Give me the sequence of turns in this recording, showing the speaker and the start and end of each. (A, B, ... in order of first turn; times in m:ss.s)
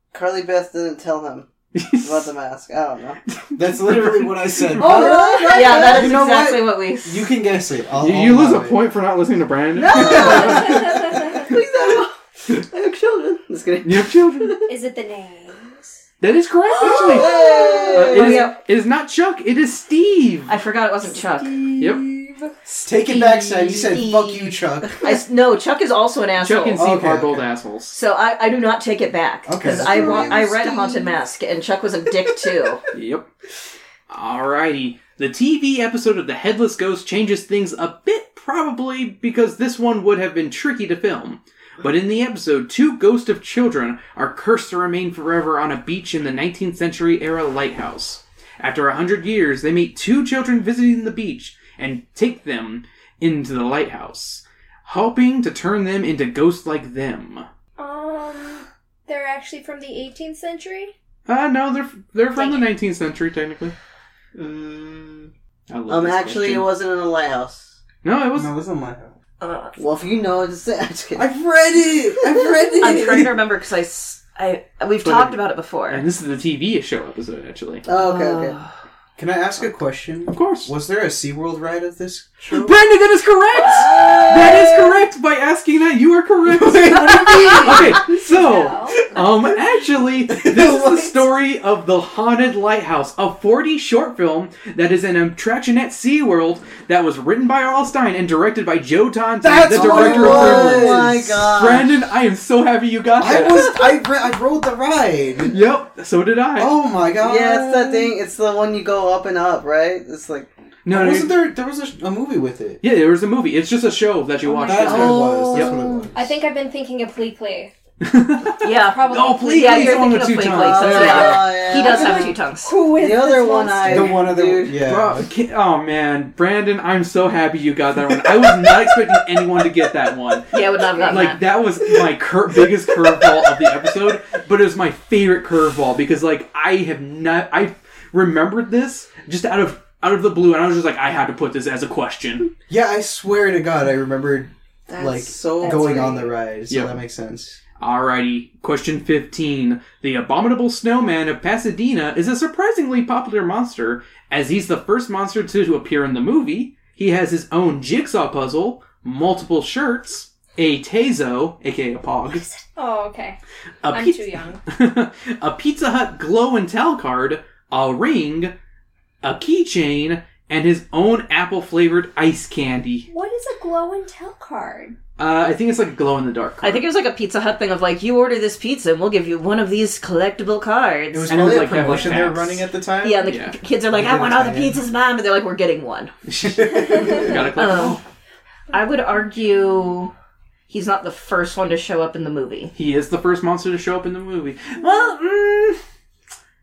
0:00.1-0:01.5 A
0:01.8-0:02.3 B
0:02.0-0:03.2 A
0:03.3-0:04.4 B
0:03.6-0:08.8 C
0:04.7-0:06.2 A
0:04.9-0:05.6 D
0:05.5-0:07.3 E
0:08.0-0:10.8 B
0:09.7-0:14.7 A
0:10.0-0:11.6 D
0:10.1-0:11.0 C
0:13.8-0:14.6 B
0:14.7-0:16.0 D
0:16.2-0:20.5 B
0:16.7-0:18.0 D
0:16.9-0:18.5 A
0:17.4-0:18.6 E
0:20.5-0:21.6 E
0:21.5-0:22.0 C
0:22.7-0:25.1 C
0:23.0-0:26.8 E
0:26.4-0:27.9 B
0:26.8-0:27.5 C
0:27.9-0:32.8 E
0:29.5-0:30.4 C
0:29.6-0:31.1 A
0:32.9-0:33.3 B
0:34.1-0:57.5 B
0:57.8-1:00.9 D
1:01.3-1:03.8 B
1:02.4-1:02.7 D
1:04.4-1:05.3 A
1:05.7-1:06.7 B
1:05.9-1:07.7 A
1:08.0-1:08.5 B
1:08.4-1:09.1 C
1:09.4-1:09.8 E
1:09.8-1:11.2 A
1:11.2-1:13.3 C
1:12.0-1:13.3 A
1:12.8-1:16.0 E
1:15.0-1:17.8 B
1:17.8-1:18.6 A
1:17.9-1:18.7 E
1:19.2-1:22.6 C
1:20.3-1:20.7 B
1:22.5-1:43.7 B
1:23.6-1:24.9 A
1:26.5-1:28.0 C
1:27.3-1:29.2 D
1:30.3-1:31.1 C
1:39.4-1:41.5 C
1:39.7-1:42.0 A
1:43.2-1:45.7 C
1:43.4-1:43.8 A
1:45.5-1:46.8 B
1:46.6-1:48.2 C
1:47.2-1:50.5 A
1:50.8-1:51.4 B
1:50.9-1:52.8 C
1:52.8-1:55.8 B
1:54.5-1:57.7 D
1:54.7-1:56.3 C
1:54.9-1:55.5 A
1:58.0-2:01.4 B
1:58.6-2:02.7 E
1:58.7-2:00.1 D
2:00.5-2:02.4 A
2:01.8-2:04.2 D
2:02.9-2:04.8 A
2:03.9-2:05.3 C
2:04.8-2:10.5 B
2:08.1-2:09.5 C
2:10.5-2:11.4 E
2:10.9-2:11.2 D
2:11.1-2:22.5 B
2:12.9-2:13.5 C
2:22.7-2:27.6 C
2:24.9-2:26.3 A
2:25.8-2:26.0 E
2:26.7-2:27.0 B
2:27.8-2:42.4 B
2:42.3-2:43.4 D
2:43.8-2:48.5 B
2:43.9-2:44.6 D
2:49.2-2:53.1 B
2:53.1-2:55.0 D
2:55.2-2:56.8 B
2:56.6-3:01.5 E
3:01.1-3:03.3 C
3:01.3-3:02.7 B
3:03.0-3:06.1 E
3:03.3-3:03.5 B
3:03.9-3:04.8 C
3:06.3-3:08.0 B
3:06.6-3:07.1 C
3:06.8-3:08.0 E
3:06.9-3:07.2 D
3:08.7-3:10.1 E
3:10.7-3:12.7 E
3:12.8-3:15.8 B